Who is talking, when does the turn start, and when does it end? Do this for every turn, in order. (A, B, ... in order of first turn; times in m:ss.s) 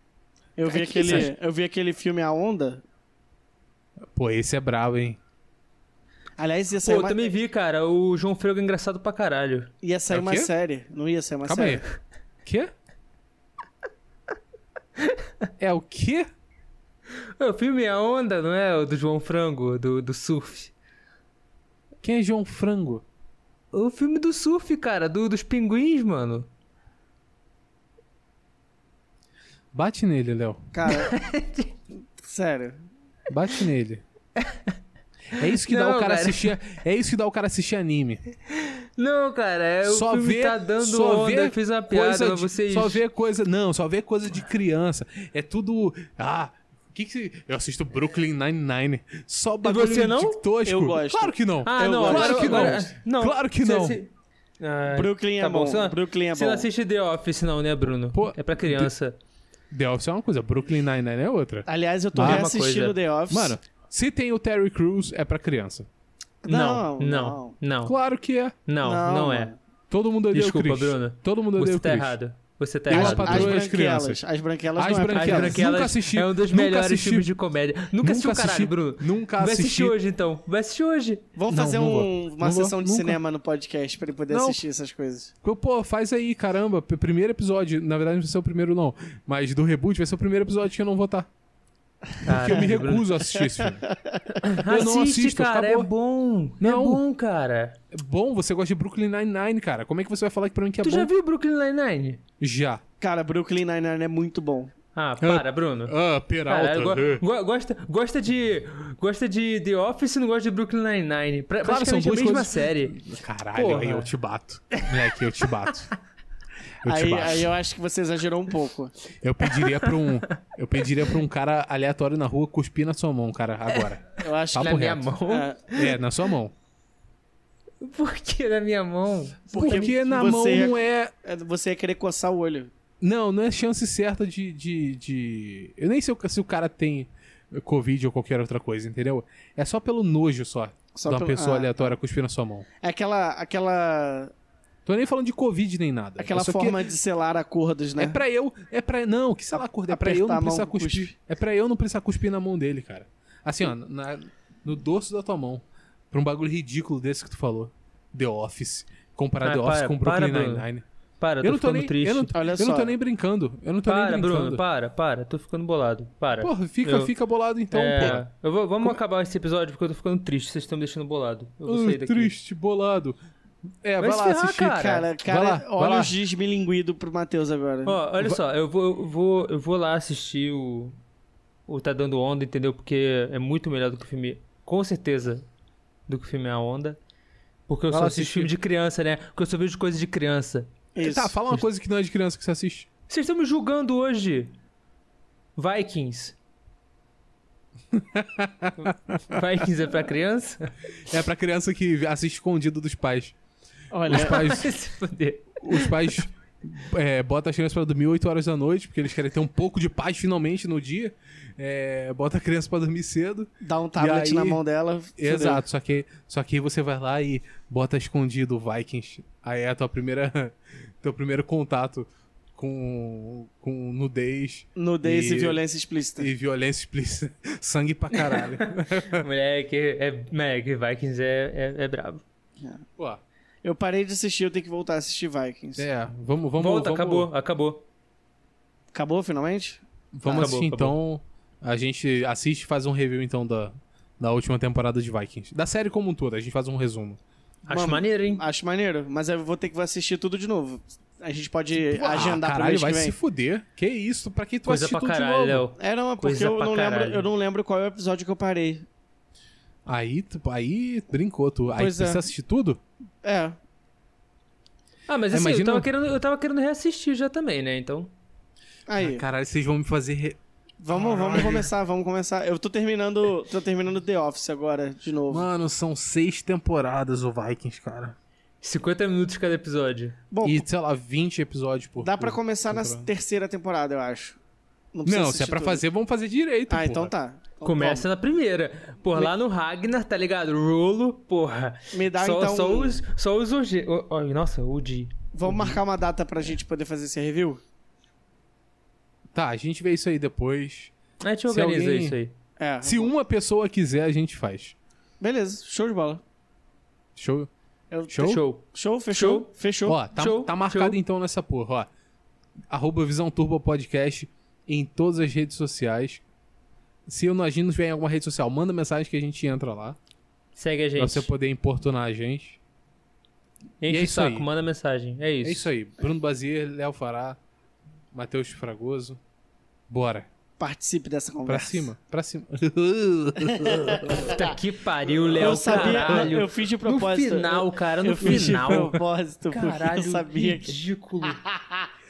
0:00.6-0:02.8 A
0:00.9-0:01.3 B
0:01.0-0:01.3 C
0:04.1-0:05.2 C
0:06.4-0:07.3 A
0:06.8-0:09.7 B
0:09.8-0:11.8 A
0:10.1-0:10.5 C
0:11.4-0:11.8 C
0:12.4-0:12.7 C
0:15.0-0:15.3 B
0:15.6-0:16.3 C
0:17.4-0:20.7 B
0:22.0-0:23.0 C
0:23.7-0:26.5 B
0:29.7-0:30.6 C
0:30.7-0:31.2 A
0:30.9-0:31.7 B
0:32.2-0:32.8 A
0:33.3-0:34.0 C
0:35.4-0:38.2 C
0:35.5-0:36.5 B
0:38.5-0:43.0 B
0:39.8-0:54.0 C
0:49.6-0:50.4 B
0:50.6-0:52.9 A
0:51.6-0:59.2 B
0:54.9-0:56.7 A
0:58.1-0:58.9 C
0:59.7-1:02.5 C
1:01.7-1:03.6 A
1:02.2-1:03.0 B
1:03.3-1:05.9 C
1:06.4-1:07.6 A
1:06.5-1:07.9 B
1:07.8-1:08.6 C
1:08.7-1:09.5 B
1:08.8-1:09.6 A
1:09.9-1:12.2 C
1:10.3-1:13.6 B
1:12.9-1:14.2 C
1:12.9-1:15.6 A
1:14.8-1:17.3 C
1:15.2-1:21.3 B
1:18.0-1:20.0 C
1:21.4-1:25.3 A
1:21.5-1:23.2 C
1:24.3-1:24.6 C
1:25.4-1:31.3 C
1:32.2-1:33.4 B
1:32.2-1:33.9 C
1:33.9-1:34.2 A
1:34.4-1:37.8 B
1:34.6-1:35.9 C
1:36.6-1:37.0 C
1:37.9-1:41.1 C
1:40.8-1:42.2 B
1:42.4-1:42.8 C
1:43.0-1:44.7 A
1:45.0-1:53.0 B
1:45.2-1:47.2 C
1:51.6-1:55.9 C
1:53.5-1:54.1 B
1:56.8-1:57.5 C
1:56.9-1:58.9 A
1:59.2-2:05.1 C
1:59.5-2:00.4 B
2:04.2-2:05.7 A
2:04.6-2:06.0 B
2:05.7-2:06.5 C
2:07.8-2:09.9 B
2:09.5-2:12.7 A
2:09.6-2:11.1 C
2:13.0-2:22.7 C
2:20.9-2:22.0 A
2:22.8-2:24.3 A
2:24.9-2:26.9 C
2:26.2-2:28.2 A
2:28.0-2:40.8 C
2:29.9-2:31.1 A
2:39.4-2:40.7 B
2:41.2-2:42.3 B
2:41.4-2:44.6 C
2:42.3-2:43.0 A
2:43.8-2:47.1 B
2:46.4-2:48.3 C
2:47.7-2:52.3 B
2:51.7-2:53.2 C
2:53.8-2:56.1 C
2:54.0-2:55.1 B
2:54.7-2:58.0 A
2:57.8-3:01.0 B
3:01.7-3:05.5 B
3:06.1-3:07.0 B
3:07.7-3:10.7 B
3:07.9-3:08.5 C
3:11.0-3:11.4 A
3:11.0-3:12.9 C
3:13.1-3:14.5 B
3:15.6-3:16.4 B
3:17.9-3:19.4 C
3:18.8-3:20.7 B
3:21.1-3:23.4 C
3:23.9-3:24.5 A
3:24.1-3:24.7 C
3:24.1-3:26.2 B
3:25.6-3:34.6 C
3:33.6-3:35.6 A
3:35.2-3:45.6 C
3:44.8-3:46.3 A
3:46.2-3:49.2 C
3:48.2-3:52.2 B
3:53.6-3:55.9 A
3:55.8-3:57.3 C
3:56.6-3:57.8 B
3:58.9-4:00.6 A
4:00.1-4:07.2 C
4:00.3-4:01.0 B
4:07.7-4:08.4 B
4:07.7-4:13.2 A
4:11.9-4:15.7 C
4:14.7-4:17.3 B
4:15.8-4:18.9 A
4:19.9-4:22.8 C
4:21.7-4:22.2 A
4:23.2-4:23.6 A
4:25.1-4:28.1 B
4:25.3-4:25.9 C
4:28.9-4:29.2 A
4:29.0-4:30.4 C
4:30.8-4:35.5 A
4:30.9-4:31.7 C
4:35.3-4:38.2 C
4:38.6-4:40.2 B
4:40.3-4:40.6 A
4:40.4-4:43.1 C
4:42.0-4:44.4 A
4:44.9-4:45.8 A
4:45.0-4:47.1 C
4:46.7-4:48.1 A
4:47.6-4:55.8 B
4:51.9-4:53.0 A
4:55.4-4:57.6 A
4:59.3-5:00.9 C
5:01.2-5:02.4 B
5:01.5-5:02.2 C
5:02.6-5:03.1 A
5:02.8-5:04.8 C
5:05.2-5:06.2 A
5:07.2-5:07.5 C
5:07.9-5:10.0 A
5:08.1-5:08.4 C
5:08.2-5:09.5 B
5:09.9-5:11.9 C
5:10.1-5:11.0 B
5:12.7-5:16.2 C
5:17.1-5:20.0 C
5:20.6-5:21.3 B
5:21.0-5:22.6 C
5:23.8-5:25.7 B
5:23.9-5:24.5 C
5:25.4-5:27.4 C
5:28.1-5:29.2 C
5:29.9-5:30.3 C
5:30.6-5:31.9 A
5:31.4-5:34.3 C
5:33.4-5:34.4 A
5:34.1-5:39.0 B
5:35.4-5:41.9 A
5:35.6-5:36.3 C
5:38.2-5:39.0 C
5:39.5-5:41.4 B